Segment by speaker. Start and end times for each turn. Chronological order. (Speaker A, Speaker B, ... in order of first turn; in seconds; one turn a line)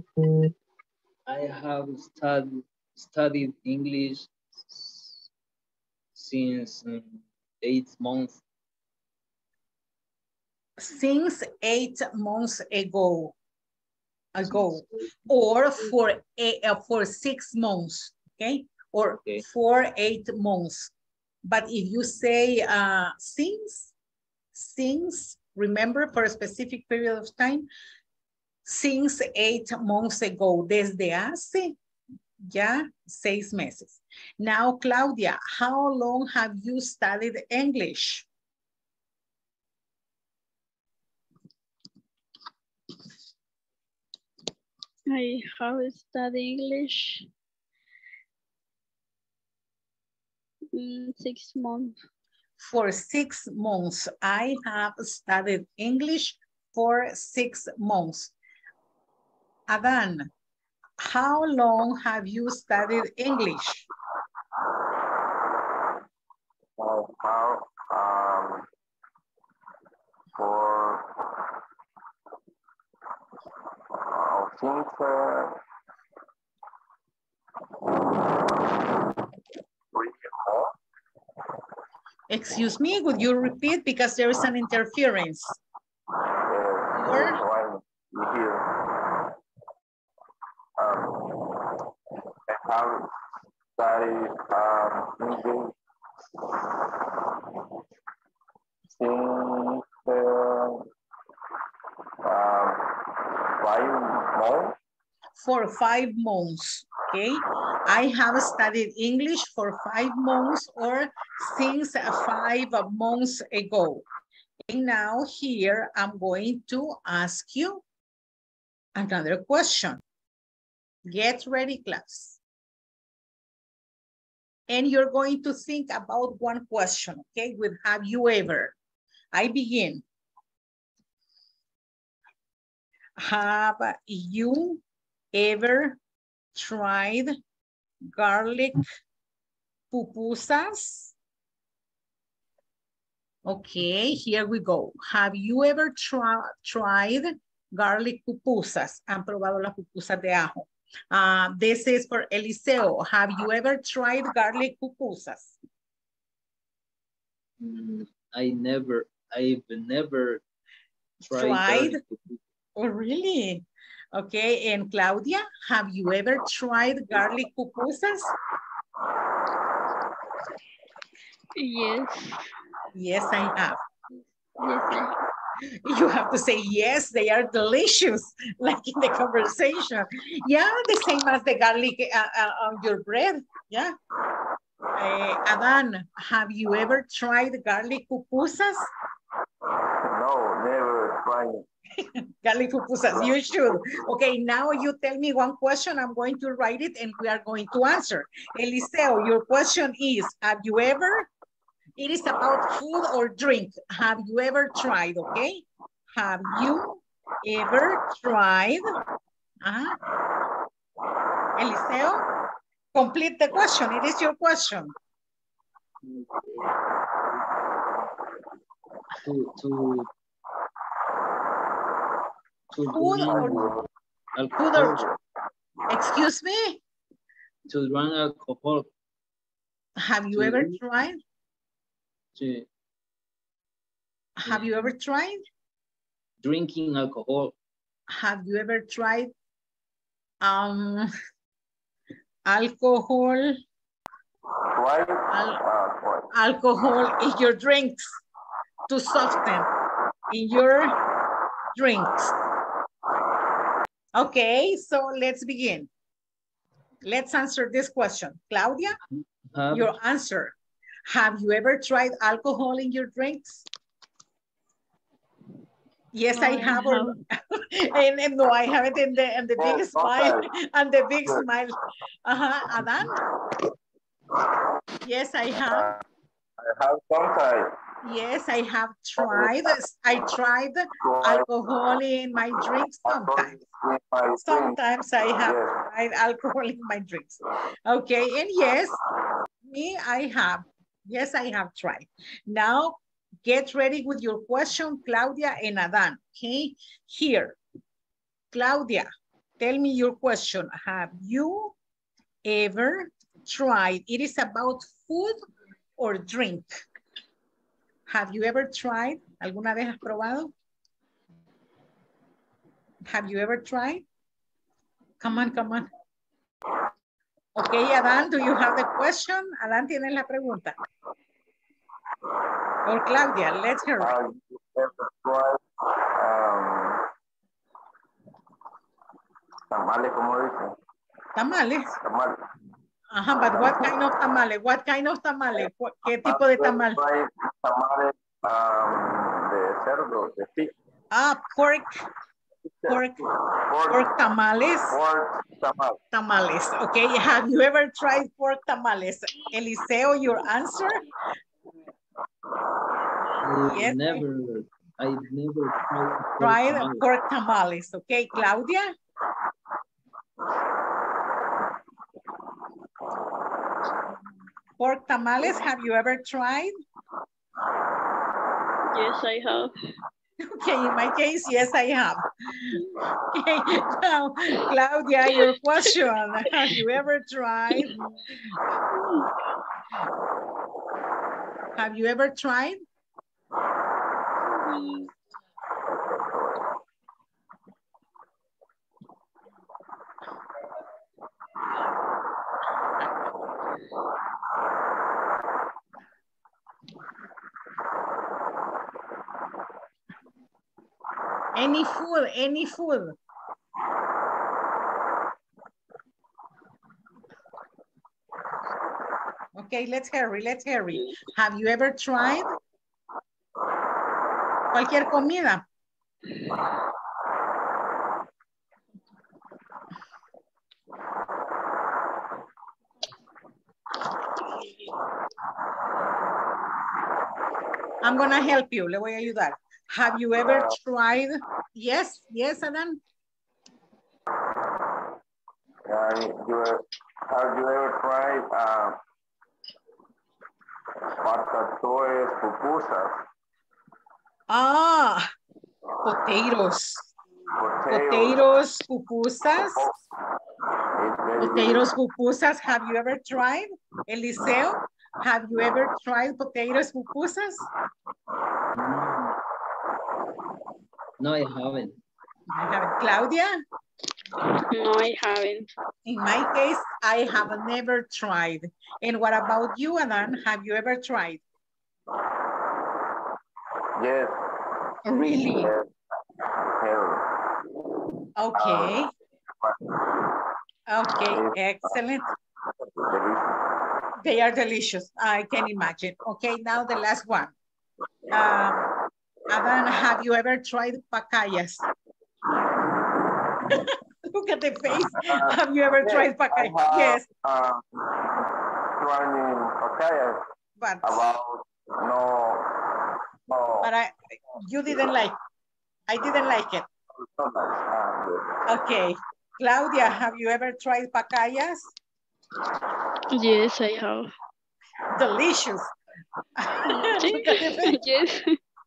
Speaker A: 1.2-5.2
Speaker A: 6.2-8.4
Speaker B: 10.8-13.3
Speaker B: 14.3-20.9
Speaker B: 21.4-23.9
Speaker B: 24.5-27.7
Speaker B: 28.6-31.8
Speaker B: 32.5-38.3
Speaker C: 45.1-47.3
Speaker C: 50.7-51.9
Speaker B: 52.6-58.3
Speaker B: 59.7-60.3
Speaker B: 61.0-63.9
Speaker D: 66.8-68.7
Speaker D: 70.4-71.1
Speaker D: 74.1-75.6
Speaker D: 77.9-78.9
Speaker D: 79.9-80.7
Speaker B: 82.3-85.6
Speaker D: 86.5-88.7
Speaker B: 87.0-87.4
Speaker D: 90.8-91.3
Speaker D: 92.5-93.2
Speaker D: 93.7-95.7
Speaker D: 96.4-96.7
Speaker D: 98.9-100.9
Speaker D: 102.2-102.8
Speaker D: 103.6-104.8
Speaker B: 105.4-114.0
Speaker B: 114.7-117.8
Speaker B: 119.0-120.0
Speaker B: 121.1-122.4
Speaker B: 124.7-128.8
Speaker B: 129.3-130.0
Speaker B: 133.2-134.8
Speaker B: 135.3-136.0
Speaker B: 136.5-137.3
Speaker B: 138.1-138.9
Speaker B: 139.9-141.1
Speaker B: 143.4-155.6
Speaker A: 157.6-160.4
Speaker B: 161.2-162.0
Speaker A: 161.2-162.4
Speaker B: 162.8-168.3
Speaker C: 171.6-172.5
Speaker B: 172.9-173.8
Speaker C: 174.6-175.1
Speaker B: 175.8-183.9
Speaker B: 185.0-188.9
Speaker D: 190.1-191.7
Speaker B: 192.4-201.3
Speaker D: 193.1-194.1
Speaker B: 202.0-208.8
Speaker B: 209.6-210.0
Speaker B: 211.6-212.2
Speaker B: 212.9-214.9
Speaker A: 216.0-216.6
Speaker A: 219.2-220.1
Speaker A: 222.7-223.7
Speaker B: 222.9-223.7
Speaker D: 223.2-223.8
Speaker A: 224.3-225.1
Speaker B: 224.6-225.0
Speaker B: 225.9-226.8
Speaker A: 227.7-228.9
Speaker B: 230.0-231.2
Speaker A: 230.4-230.8
Speaker A: 232.3-232.7
Speaker B: 234.4-235.4
Speaker A: 234.5-234.9
Speaker A: 236.4-237.5
Speaker B: 238.1-239.3
Speaker B: 240.4-241.1
Speaker B: 242.4-243.6
Speaker D: 244.7-246.3
Speaker B: 245.3-245.6
Speaker B: 246.3-248.2
Speaker B: 248.9-249.7
Speaker B: 250.3-250.9
Speaker B: 251.7-252.3
Speaker B: 254.1-255.9
Speaker B: 257.0-259.0
Speaker A: 259.2-259.9
Speaker B: 259.7-260.5
Speaker B: 261.1-263.6
Speaker B: 266.1-271.7
Speaker C: 266.3-267.2
Speaker D: 269.6-270.5
Speaker B: 272.2-273.1
Speaker B: 275.0-275.9
Speaker D: 275.6-276.0
Speaker D: 276.6-277.8
Speaker B: 278.0-283.6
Speaker D: 279.2-279.7
Speaker D: 281.0-281.5
Speaker D: 283.0-284.8
Speaker B: 284.4-289.0
Speaker D: 285.4-285.8
Speaker B: 289.6-297.6
Speaker B: 298.5-301.7
Speaker B: 302.4-305.4
Speaker B: 306.0-306.8
Speaker B: 308.1-310.5
Speaker B: 313.1-314.0
Speaker B: 315.2-315.9
Speaker B: 317.6-320.8
Speaker B: 322.8-324.1
Speaker D: 324.0-325.6
Speaker D: 326.2-327.0
Speaker D: 329.7-330.8
Speaker B: 331.3-331.9
Speaker D: 332.0-332.4
Speaker B: 333.1-337.0
Speaker D: 333.5-333.9
Speaker D: 336.2-340.7
Speaker B: 341.1-342.0
Speaker D: 342.6-344.1
Speaker B: 342.9-343.2
Speaker B: 343.9-344.9
Speaker D: 344.9-346.0
Speaker B: 346.1-351.0
Speaker A: 353.4-357.0
Speaker B: 353.6-354.2
Speaker B: 356.4-358.9
Speaker B: 364.8-366.7
Speaker C: 368.9-369.7
Speaker B: 370.4-378.0
Speaker C: 377.7-378.1
Speaker C: 378.9-379.3
Speaker B: 381.8-382.8
Speaker C: 384.5-385.1
Speaker D: 386.2-386.6
Speaker B: 401.5-403.1
Speaker B: 409.6-412.5
Speaker B: 414.7-415.6
Speaker B: 428.0-433.0
Speaker D: 430.4-430.8
Speaker D: 435.9-439.0
Speaker D: 441.2-443.2
Speaker B: 444.5-445.2
Speaker B: 446.0-447.1
Speaker D: 447.6-448.4
Speaker B: 447.9-449.9
Speaker D: 449.6-449.9
Speaker D: 451.0-451.9
Speaker B: 451.4-457.7
Speaker A: 458.7-459.4
Speaker A: 461.2-462.0
Speaker B: 462.5-463.5
Speaker C: 464.4-465.7
Speaker B: 466.0-471.4
Speaker D: 474.0-474.4
Speaker B: 475.0-475.7
Speaker D: 475.6-475.9
Speaker D: 476.5-477.2
Speaker B: 478.4-479.1
Speaker D: 478.5-479.0
Speaker D: 479.6-479.9
Speaker B: 480.9-482.3
Speaker D: 481.3-482.0
Speaker D: 482.8-483.6
Speaker B: 484.2-487.5
Speaker B: 488.3-488.9
Speaker B: 489.5-491.8
Speaker B: 493.7-497.2
Speaker D: 495.1-500.4
Speaker B: 500.8-501.2
Speaker D: 501.0-502.7
Speaker D: 503.5-503.9
Speaker B: 503.8-505.4
Speaker B: 506.1-506.9
Speaker D: 507.1-508.6
Speaker B: 508.7-511.9
Speaker C: 513.3-514.3
Speaker B: 515.1-515.9
Speaker B: 516.6-518.0
Speaker C: 516.9-518.6